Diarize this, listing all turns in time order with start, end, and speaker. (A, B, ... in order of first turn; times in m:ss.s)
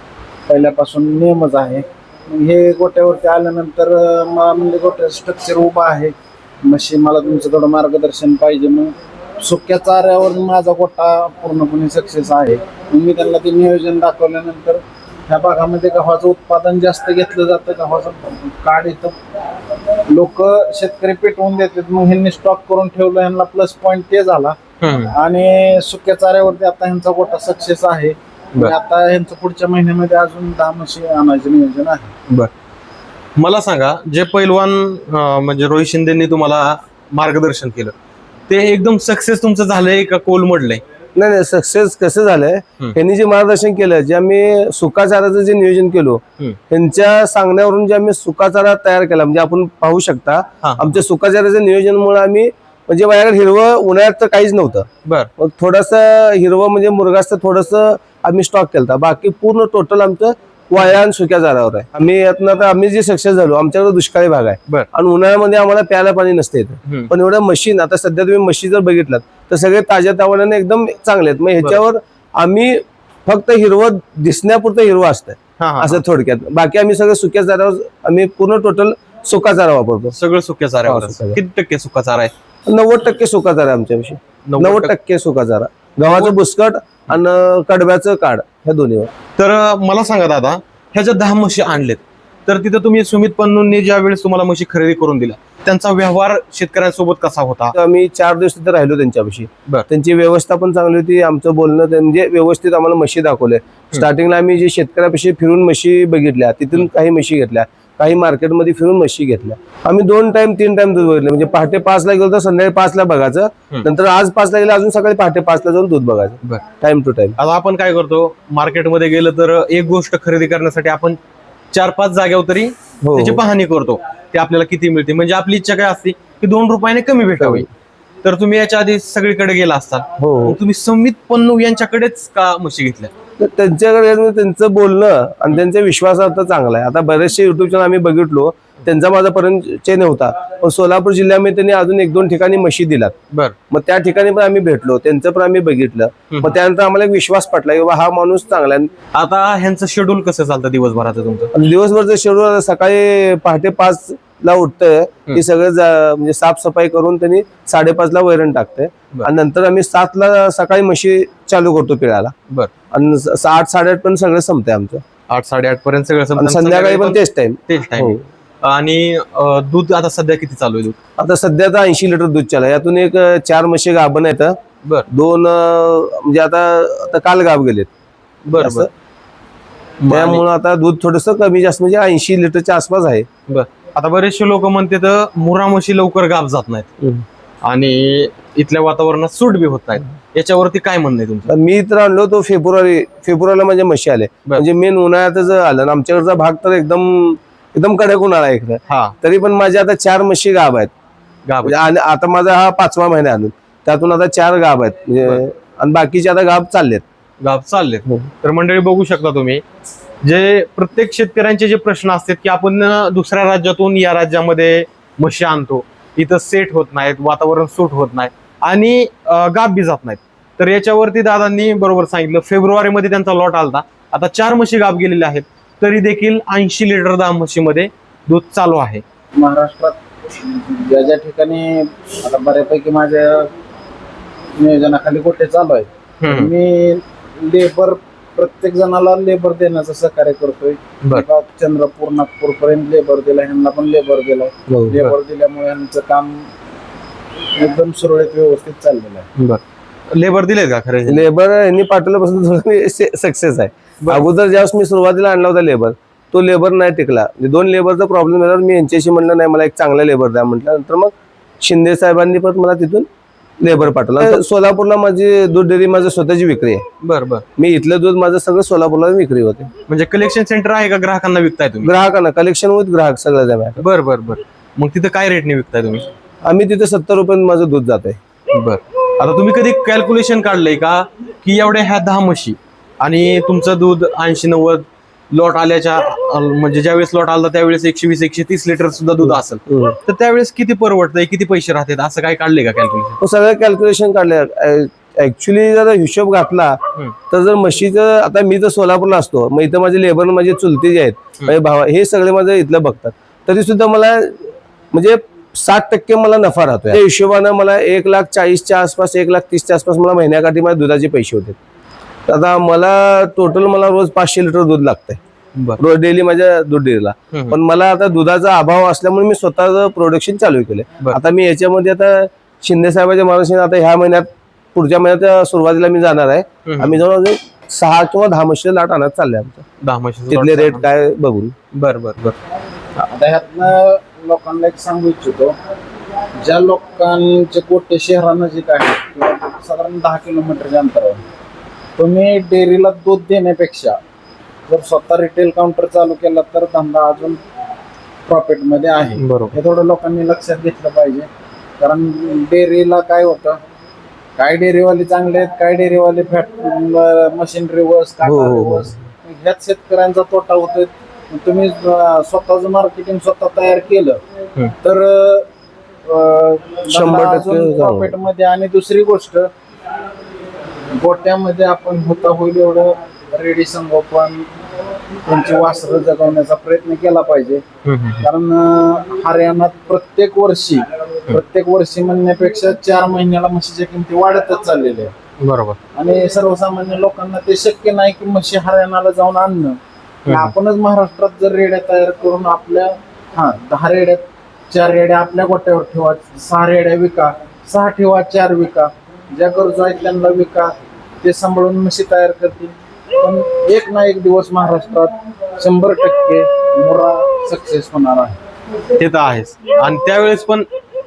0:00.5-0:19.1 A
0:20.1-0:24.6 A
0:24.8-0:25.1 B
0:25.1-0:32.1 A
0:33.4-0:37.9 B
0:38.5-0:40.8 B
0:41.1-1:20.2 C
0:50.6-0:51.0 B
1:06.8-1:07.1 B
1:15.6-1:16.0 B
1:20.1-1:22.3 B
1:20.8-1:21.4 C
1:22.6-1:29.1 C
1:24.4-1:24.9 B
1:26.0-1:26.3 B
1:29.4-1:37.7 B
1:37.7-1:57.4 C
1:57.4-2:01.2 B
2:01.7-2:07.7 B
2:03.0-2:03.4 C
2:07.4-2:07.6 C
2:08.2-2:13.1 B
2:10.2-2:10.6 C
2:13.4-2:23.1 C
2:23.7-2:28.9 C
2:26.3-2:26.6 B
2:29.1-2:31.5 B
2:31.5-2:42.3 C
2:42.9-2:45.0 C
2:45.3-2:51.0 B
2:46.4-2:48.2 C
2:51.2-2:54.6 C
2:55.1-2:57.9 C
2:58.5-2:58.9 B
2:58.5-2:58.9 C
3:00.0-3:00.4 B
3:00.1-3:03.3 C
3:03.5-3:06.9 B
3:07.6-3:11.5 B
3:11.5-3:20.9 C
3:18.9-3:19.1 B
3:21.5-3:21.8 B
3:21.6-3:27.0 C
3:27.4-3:29.6 B
3:30.2-3:49.0 B
3:49.4-3:53.5 A
3:54.6-4:06.5 A
3:56.2-3:56.5 B
4:04.7-4:05.0 C
4:07.6-4:09.3 A
4:09.4-4:11.3 B
4:11.1-4:23.1 C
4:23.6-4:26.8 C
4:27.0-4:27.4 B
4:27.6-4:29.7 C
4:29.9-4:31.9 B
4:31.8-4:33.8 C
4:33.8-4:36.1 B
4:36.4-4:38.2 C
4:38.5-4:53.2 B
4:49.2-4:50.0 C
4:53.2-5:11.6 C
5:12.3-5:15.2 C
5:15.8-5:29.6 C
5:26.6-5:27.0 B
5:29.8-5:30.8 B
5:30.3-5:31.5 C
5:31.7-5:32.4 B
5:33.0-5:35.5 A
5:36.4-5:41.2 A
5:42.0-5:44.0 A
5:44.7-5:47.4 A
5:48.3-5:51.3 A
5:49.2-5:49.6 B
5:51.8-5:53.6 A
5:54.4-6:04.2 A
5:58.2-5:58.9 C
6:04.8-6:05.5 A
6:06.0-6:09.5 A
6:06.9-6:08.1 C
6:11.0-6:14.5 A
6:15.2-6:17.6 A
6:17.8-6:18.3 B
6:18.2-6:25.1 A
6:25.4-6:25.8 B
6:25.9-6:48.4 A
6:30.2-6:30.5 B
6:49.0-6:50.7 B